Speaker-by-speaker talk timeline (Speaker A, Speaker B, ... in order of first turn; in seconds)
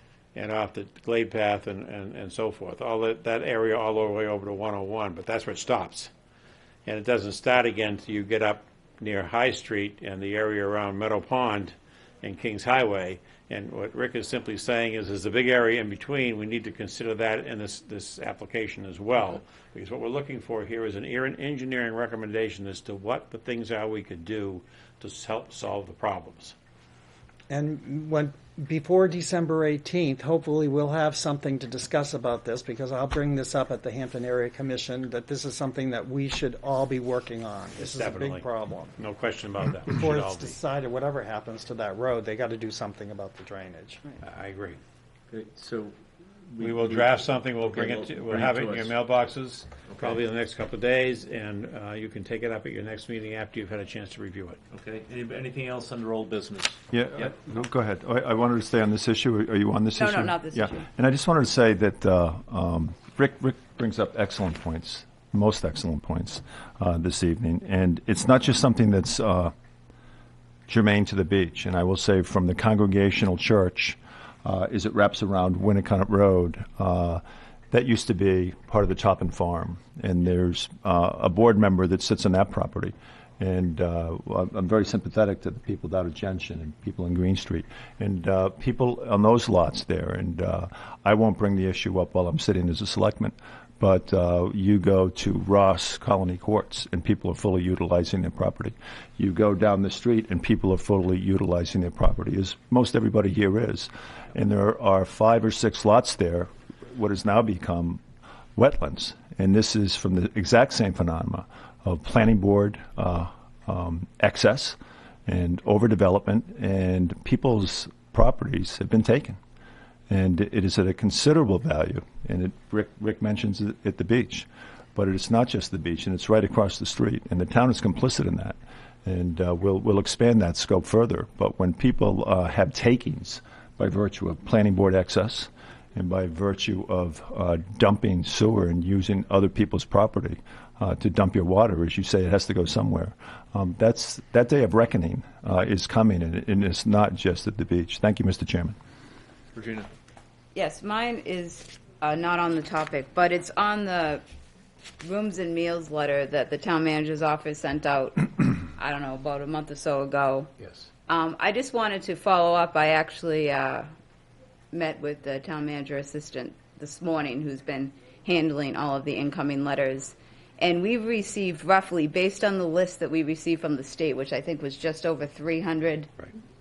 Speaker A: 0.3-6.1, 6.8-26.5, 37.8-38.4, 39.0-40.5, 44.2-44.8, 46.6-54.6
Speaker B: 27.5-38.9, 39.9-44.0
Speaker C: 45.3-46.0, 46.5-48.9, 49.9-50.2, 54.7-57.3, 149.5-149.9
Speaker D: 56.9-69.5, 70.7-108.0, 108.5-119.4, 120.1-148.8
Speaker E: 59.9-60.9, 150.5-154.2, 155.0-160.5, 161.1-163.9, 164.7-176.1